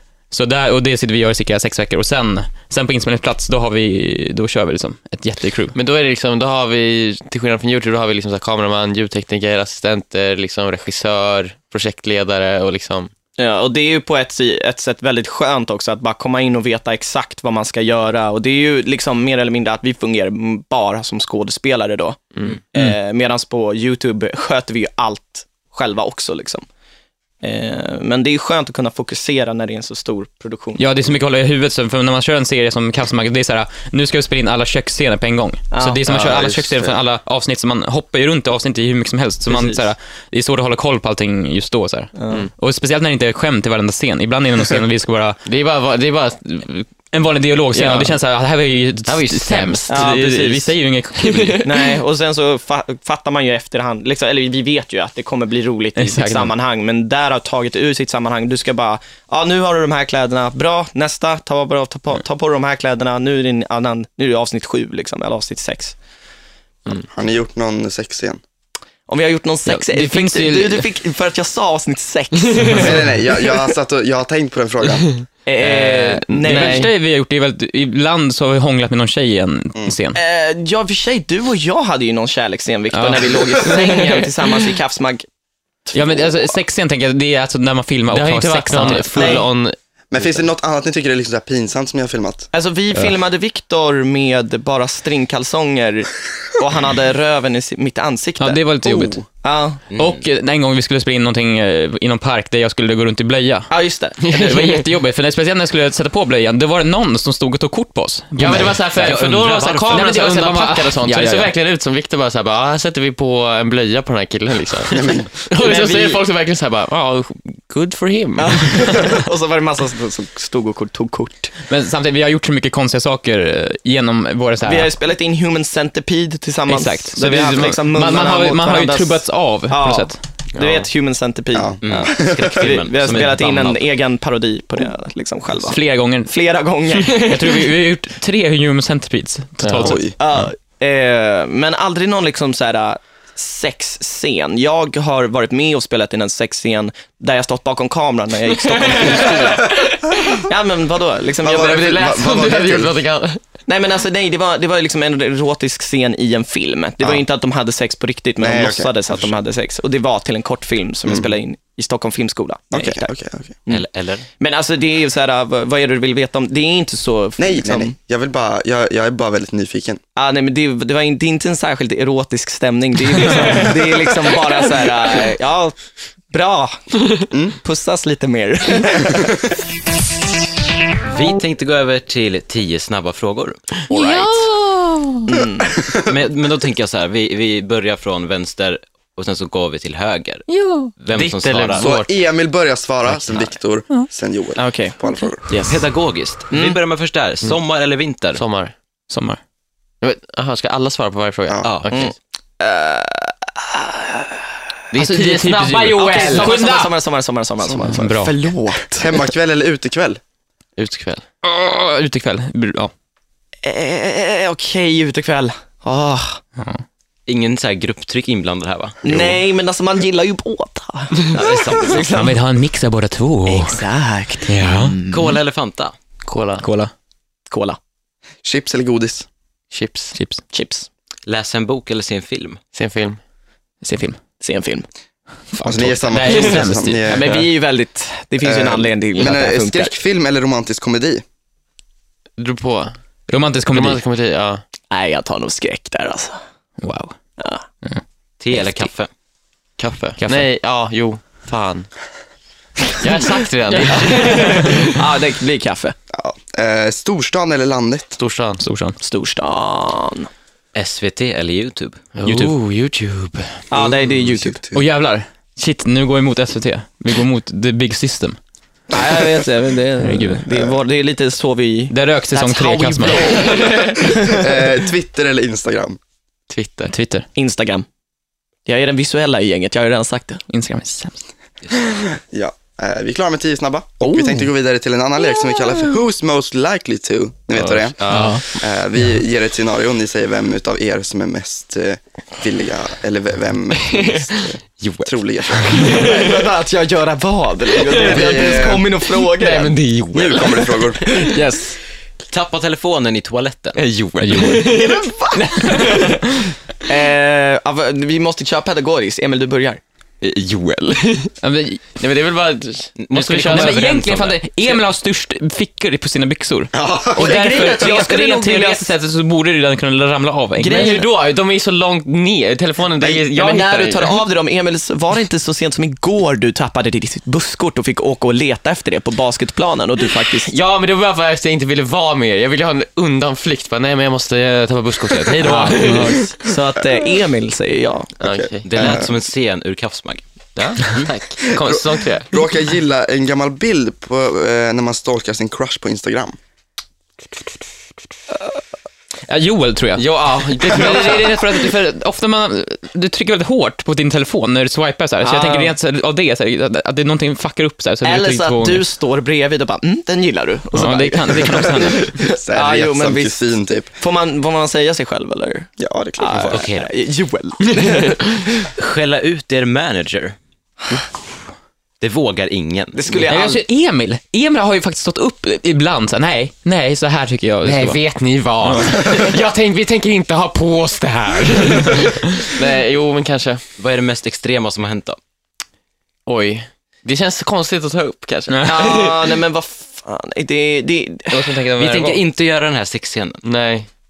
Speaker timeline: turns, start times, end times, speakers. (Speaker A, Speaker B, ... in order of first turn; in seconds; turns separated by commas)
Speaker A: 0.3-5.8, Speaker B: 5.8-13.1, Speaker C: 13.4-26.6, Speaker C: 27.4-30.8, Speaker A: 30.8-45.4, Speaker C: 35.7-36.1, Speaker D: 36.1-37.0, Speaker C: 39.5-39.8, Speaker C: 42.2-42.5, Speaker B: 45.5-46.9, Speaker A: 47.1-51.7, Speaker B: 47.7-48.2, Speaker B: 49.1-50.1, Speaker C: 49.9-50.7, Speaker B: 51.2-51.6, Speaker C: 51.6-66.0, Speaker A: 56.0-56.5, Speaker D: 67.1-68.4, Speaker C: 69.1-73.1, Speaker A: 69.7-70.9, Speaker D: 72.8-75.1, Speaker C: 75.5-76.9, Speaker B: 75.6-76.9, Speaker A: 76.4-80.2, Speaker C: 80.2-85.3, Speaker A: 82.9-84.2, Speaker C: 85.9-86.5, Speaker A: 85.9-89.4, Speaker B: 88.1-89.8, Speaker C: 89.1-89.5, Speaker D: 90.1-92.5, Speaker C: 92.5-99.8, Speaker A: 98.4-99.3, Speaker E: 99.9-100.2, Speaker A: 100.0-103.7, Speaker C: 103.7-104.6, Speaker B: 104.2-104.9, Speaker A: 104.3-111.5, Speaker B: 108.4-119.0, Speaker E: 109.0-110.1, Speaker D: 114.9-115.3, Speaker C: 115.5-116.2, Speaker C: 118.4-121.5, Speaker A: 121.7-124.9, Speaker C: 124.6-137.7, Speaker A: 126.7-130.2, Speaker B: 130.5-130.9, Speaker D: 131.5-132.8, Speaker E: 131.8-133.8, Speaker A: 135.6-136.3, Speaker A: 137.0-140.2, Speaker B: 139.6-139.9, Speaker D: 139.8-140.2, Speaker C: 140.1-151.8, Speaker B: 149.0-149.4, Speaker D: 151.4-152.9, Speaker B: 151.4-153.4, Speaker C: 153.7-163.1, Speaker D: 158.4-159.3, Speaker D: 161.1-161.3, Speaker D: 162.7-163.6, Speaker E: 163.7-164.3, Speaker C: 164.4-167.9, Speaker D: 167.4-170.0, Speaker C: 170.2-175.8, Speaker C: 176.3-177.0, Speaker D: 177.3-177.6, Speaker C: 177.6-179.4, Speaker E: 181.1-183.8, Speaker C: 183.9-184.4, Speaker A: 183.9-185.3, Speaker C: 185.3-185.8, Speaker E: 185.9-191.9, Speaker A: 190.5-190.9, Speaker B: 191.1-192.1, Speaker D: 191.8-195.5, Speaker C: 194.6-195.8, Speaker E: 195.7-198.4, Speaker C: 196.5-196.8, Speaker B: 198.4-198.7, Speaker A: 199.1-199.4, Speaker B: 200.0-202.1, Speaker E: 201.6-202.0, Speaker C: 201.9-204.5, Speaker B: 204.9-206.5, Speaker A: 204.9-206.9, Speaker C: 205.8-209.2, Speaker A: 207.8-208.3, Speaker D: 209.0-210.2, Speaker B: 210.8-211.2, Speaker A: 211.4-212.9, Speaker C: 213.6-216.4, Speaker A: 216.6-216.8, Speaker E: 217.3-219.0, Speaker C: 219.0-222.4, Speaker D: 219.1-219.4, Speaker E: 221.3-222.2, Speaker A: 222.1-223.8, Speaker C: 223.5-225.3, Speaker A: 224.5-225.0, Speaker B: 224.6-224.9, Speaker E: 225.1-225.9, Speaker B: 226.3-226.7, Speaker A: 226.6-226.9, Speaker C: 227.5-227.8, Speaker D: 228.4-229.3, Speaker B: 229.7-230.2, Speaker A: 230.1-230.4, Speaker C: 230.5-230.9, Speaker E: 231.3-232.6, Speaker B: 232.7-233.2, Speaker A: 233.8-234.2, Speaker C: 234.4-234.9, Speaker A: 235.5-237.2, Speaker D: 235.6-237.4, Speaker C: 237.1-239.9, Speaker D: 238.4-241.2, Speaker B: 242.4-242.9, Speaker A: 243.3-244.0, Speaker B: 243.7-244.6, Speaker C: 244.9-246.4, Speaker A: 246.8-247.1, Speaker C: 247.4-247.7, Speaker E: 248.4-249.1, Speaker B: 249.8-251.9, Speaker A: 249.8-250.5, Speaker B: 253.0-254.9, Speaker A: 253.7-254.8, Speaker C: 253.9-256.0, Speaker D: 256.1-258.2, Speaker B: 258.2-258.6, Speaker A: 258.6-259.0, Speaker C: 259.0-260.3, Speaker E: 260.8-262.0, Speaker B: 262.2-263.7, Speaker A: 262.2-262.6, Speaker C: 263.7-264.6, Speaker D: 263.8-264.8, Speaker A: 264.7-268.4, Speaker C: 268.9-274.7, Speaker A: 270.0-270.4, Speaker A: 271.9-273.6, Speaker D: 274.2-276.0, Speaker B: 276.5-276.9, Speaker A: 276.9-277.3, Speaker C: 277.4-277.9, Speaker C: 278.7-280.4, Speaker A: 280.5-281.2, Speaker D: 282.1-296.1, Speaker B: 287.6-288.4, Speaker A: 288.1-288.4, Speaker B: 294.8-296.2, Speaker C: 295.8-299.8, Speaker B: 297.8-298.5, Speaker D: 297.9-298.9, Speaker B: 299.2-301.2, Speaker D: 300.1-301.2, Speaker C: 301.0-301.8, Speaker E: 302.3-303.8, Speaker B: 303.8-305.1, Speaker A: 304.2-304.7, Speaker C: 304.6-306.2, Speaker A: 305.4-306.5, Speaker C: 306.9-309.8, Speaker B: 310.2-311.3, Speaker A: 311.4-311.8, Speaker B: 312.0-314.1, Speaker E: 313.0-314.4, Speaker A: 313.4-320.9, Speaker D: 316.7-318.0, Speaker C: 317.2-318.9, Speaker C: 320.6-321.1, Speaker B: 320.6-324.2, Speaker C: 323.0-330.5, Speaker B: 330.5-336.3, Speaker C: 335.4-338.1, Speaker B: 338.2-339.0, Speaker D: 338.2-339.1, Speaker E: 338.6-340.2, Speaker B: 340.6-342.4, Speaker E: 340.8-341.1, Speaker D: 341.5-346.4, Speaker A: 349.3-358.9, Speaker B: 350.0-351.5, Speaker C: 355.2-355.7, Speaker C: 358.0-363.4, Speaker A: 360.7-362.1, Speaker D: 362.2-363.9, Speaker C: 364.0-368.7, Speaker D: 365.8-366.6, Speaker E: 366.5-366.9, Speaker E: 368.8-370.4, Speaker E: 372.0-373.0, Speaker C: 372.9-373.6, Speaker A: 373.2-378.0, Speaker B: 377.6-383.6, Speaker A: 378.6-379.3, Speaker E: 383.8-385.2, Speaker B: 386.3-389.4, Speaker A: 388.5-388.9, Speaker C: 388.7-391.6, Speaker A: 391.3-392.2, Speaker E: 391.8-393.4, Speaker B: 393.4-393.9